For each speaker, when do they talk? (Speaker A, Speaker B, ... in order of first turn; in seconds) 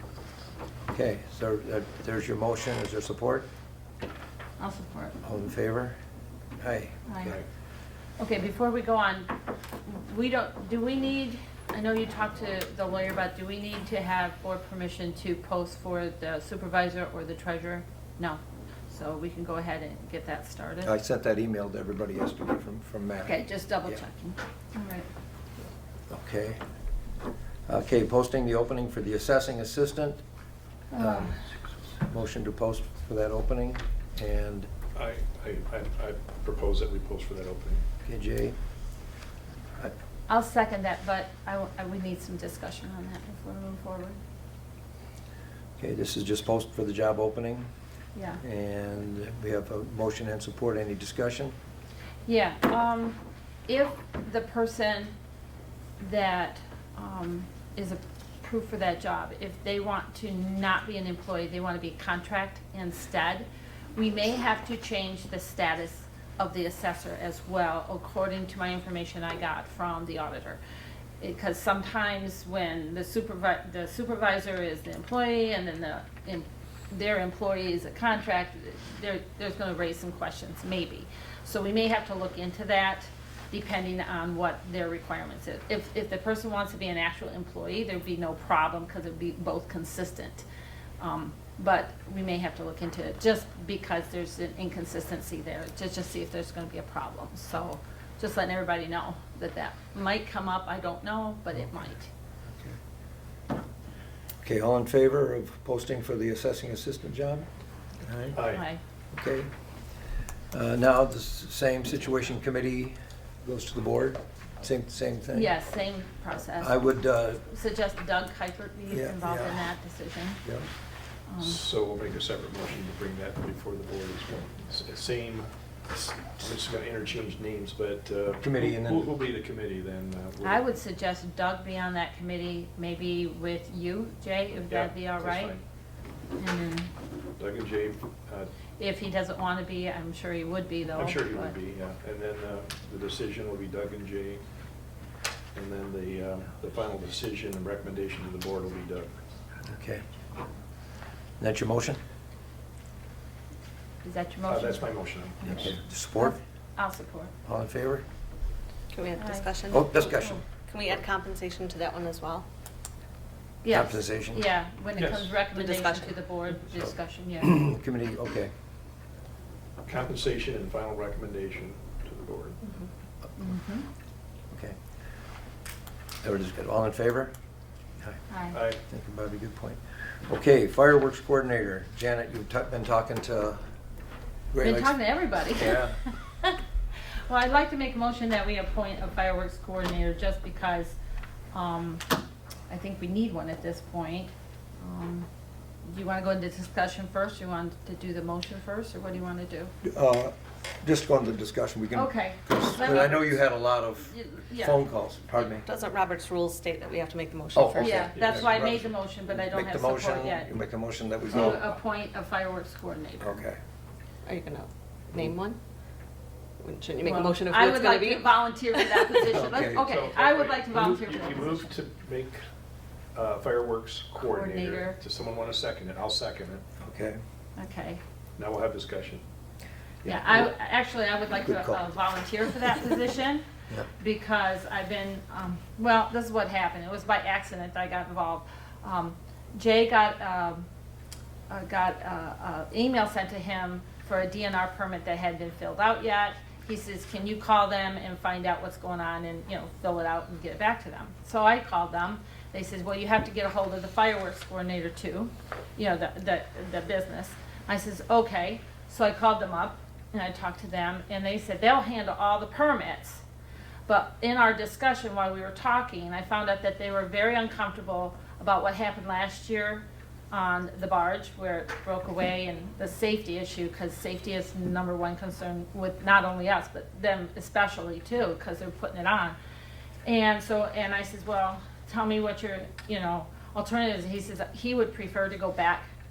Speaker A: 0.9-3.5, 5.2-6.0, 6.6-7.4, 20.8-24.0, 26.1-26.6, 27.7-30.2, 31.0-31.4, 32.0-34.7, 38.0-38.6, 45.8-47.7, 48.4-51.6, 104.4-107.5, 108.0-108.4, 109.1-109.5, 110.5-115.5, 116.6-117.4, 118.9-119.7, 128.4-129.1, 149.7-150.0, 151.4-152.0, 155.4-156.4, 157.4-158.0, 159.7-160.4, 163.7-164.5, 167.4-168.5, 174.5-174.8, 176.2-177.3, 178.8-183.6, 184.5-186.0, 199.8-205.7, 207.5-211.7, 213.2-213.6, 219.2-219.9, 226.8-227.2, 230.0-230.5, 231.4-231.8
Speaker B: 4.6-5.2, 7.1-7.4, 8.2-9.3, 9.8-20.9, 23.2-25.1, 30.9-31.4, 40.3-44.2, 48.1-48.4, 52.3-55.1, 56.0-70.6, 71.2-90.5, 91.0-102.1, 108.5-108.8, 115.3-116.8, 117.4-120.4, 121.3-121.6, 130.4-135.6, 136.4-136.9, 138.8-141.6, 154.0-154.9, 155.4-157.3, 159.2-159.5, 163.6-167.6, 173.4-173.9, 178.3-178.6, 184.6-186.6, 187.3-191.0, 191.5-192.1, 192.7-195.3, 195.8-199.7, 201.9-203.5, 204.1-204.8, 207.8-210.5, 211.3-213.4, 217.0-221.7, 224.2-225.0, 227.6-228.0, 230.1-240.7, 241.5-263.2, 263.9-279.4, 280.1-285.9
Speaker C: 34.9-37.9, 108.3-108.7, 121.4-130.6, 134.5-135.6, 137.4-138.5, 140.9-144.4, 145.6-149.1, 154.5-155.7, 165.0-165.4, 169.9-172.6, 178.5-178.8, 208.1-208.8, 219.8-222.4, 223.1-226.7, 228.4-229.2
Speaker D: 158.9-162.5, 165.5-166.2, 205.6-208.1, 214.2-215.6, 216.6-219.3